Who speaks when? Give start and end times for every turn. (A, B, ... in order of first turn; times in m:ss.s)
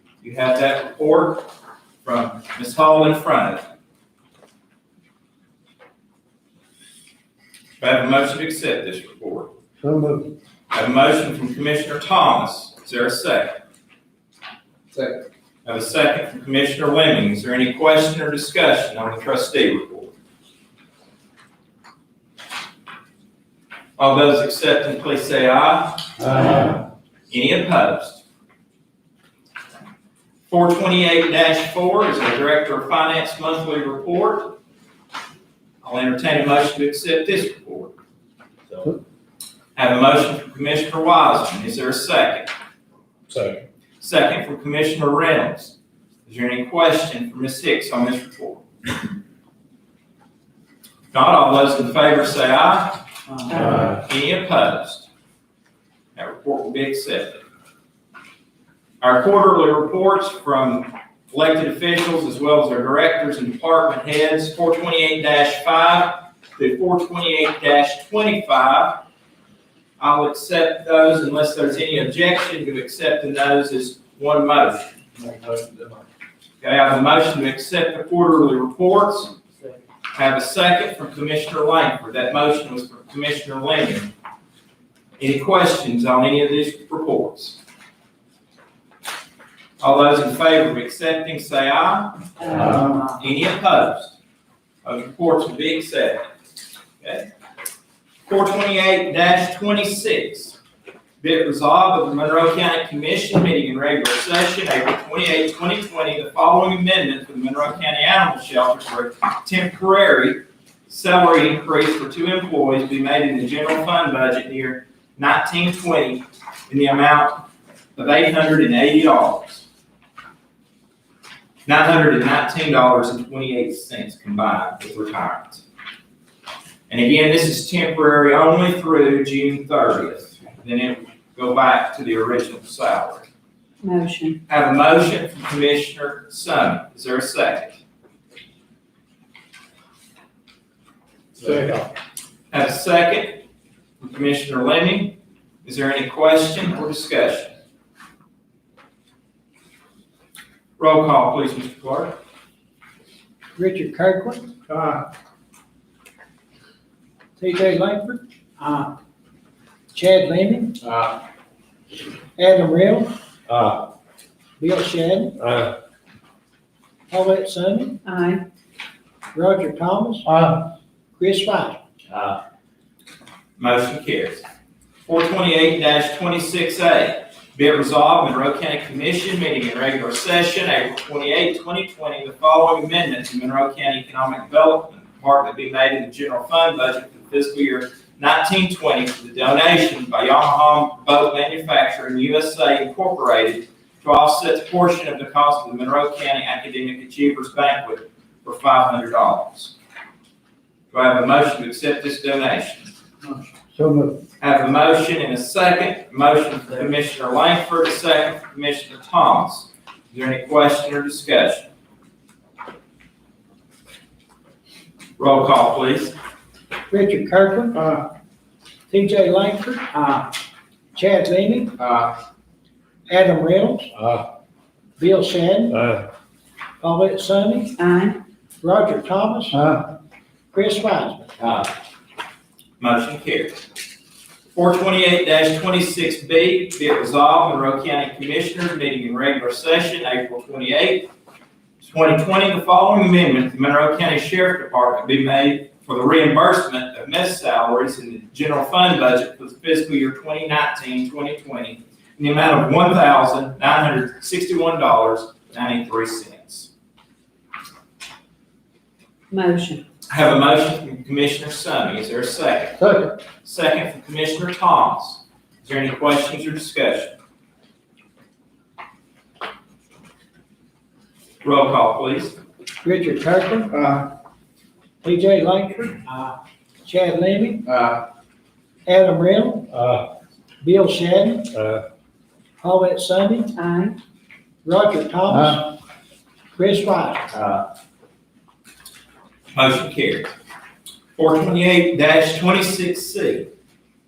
0:00.2-0:01.5 A
0:02.0-0:03.6 A
0:07.8-0:09.5 A
0:09.8-0:10.3 B
0:10.7-0:13.6 A
0:14.9-0:15.2 B
0:15.6-0:20.1 A
0:24.0-0:26.7 A
0:27.3-0:28.2 A
0:30.5-0:34.6 A
0:35.8-0:37.9 A
0:39.8-0:42.5 A
0:43.3-0:43.6 B
0:44.0-0:45.7 A
0:46.2-0:48.6 A
0:51.1-0:55.1 A
0:53.5-0:53.8 C
0:56.2-0:57.4 A
0:59.0-1:09.0 A
1:10.0-1:14.9 A
1:15.2-1:16.0 B
1:16.6-1:19.3 A
1:20.1-1:24.1 A
1:25.2-1:27.6 A
1:29.8-1:34.1 A
1:32.4-1:33.2 C
1:34.8-1:36.2 A
1:37.0-1:37.3 A
1:38.2-1:40.6 A
1:41.2-1:59.6 A
2:01.6-2:05.6 A
2:06.9-2:13.2 A
2:13.8-2:14.4 C
2:14.5-2:17.8 A
2:21.4-2:21.8 B
2:22.5-2:23.4 A
2:24.0-2:27.5 A
2:30.8-2:32.2 A
2:33.6-2:34.5 D
2:34.7-2:35.0 B
2:37.4-2:38.9 D
2:39.9-2:40.8 D
2:40.8-2:41.1 B
2:42.4-2:43.1 D
2:43.5-2:43.8 B
2:44.6-2:45.4 D
2:45.4-2:45.7 B
2:47.1-2:48.0 D
2:48.0-2:48.4 C
2:49.3-2:50.3 D
2:50.3-2:50.7 B
2:51.2-2:51.8 D
2:52.1-2:52.4 A
2:53.6-2:54.4 A
2:55.0-3:19.8 A
3:20.9-3:22.9 A
3:23.8-3:24.2 B
3:24.4-3:31.7 A
3:35.2-3:36.1 A
3:36.9-3:38.0 D
3:38.9-3:40.2 D
3:40.9-3:41.8 D
3:41.8-3:42.1 B
3:43.1-3:43.9 D
3:44.0-3:44.2 B
3:45.0-3:45.8 D
3:45.8-3:46.0 B
3:46.8-3:47.8 D
3:47.8-3:48.2 C
3:48.6-3:49.8 D
3:49.6-3:49.8 B
3:50.5-3:51.3 D
3:51.4-3:51.7 A
3:52.8-3:53.6 A
3:54.5-4:01.1 A
4:01.8-4:16.7 A
4:19.3-4:19.8 C
4:20.1-4:22.9 A
4:23.4-4:27.1 A
4:31.4-4:32.4 A
4:32.8-4:33.7 D
4:33.7-4:34.1 B
4:35.0-4:36.3 D
4:36.8-4:37.7 D
4:37.7-4:38.0 B
4:38.8-4:39.7 D
4:39.7-4:40.0 B
4:40.6-4:41.5 D
4:41.5-4:41.8 B
4:42.6-4:43.5 D
4:43.5-4:44.0 C
4:44.6-4:45.8 D
4:45.3-4:45.6 B
4:46.5-4:47.3 D
4:47.3-4:47.6 A
4:49.5-4:50.3 A
4:51.2-4:53.5 A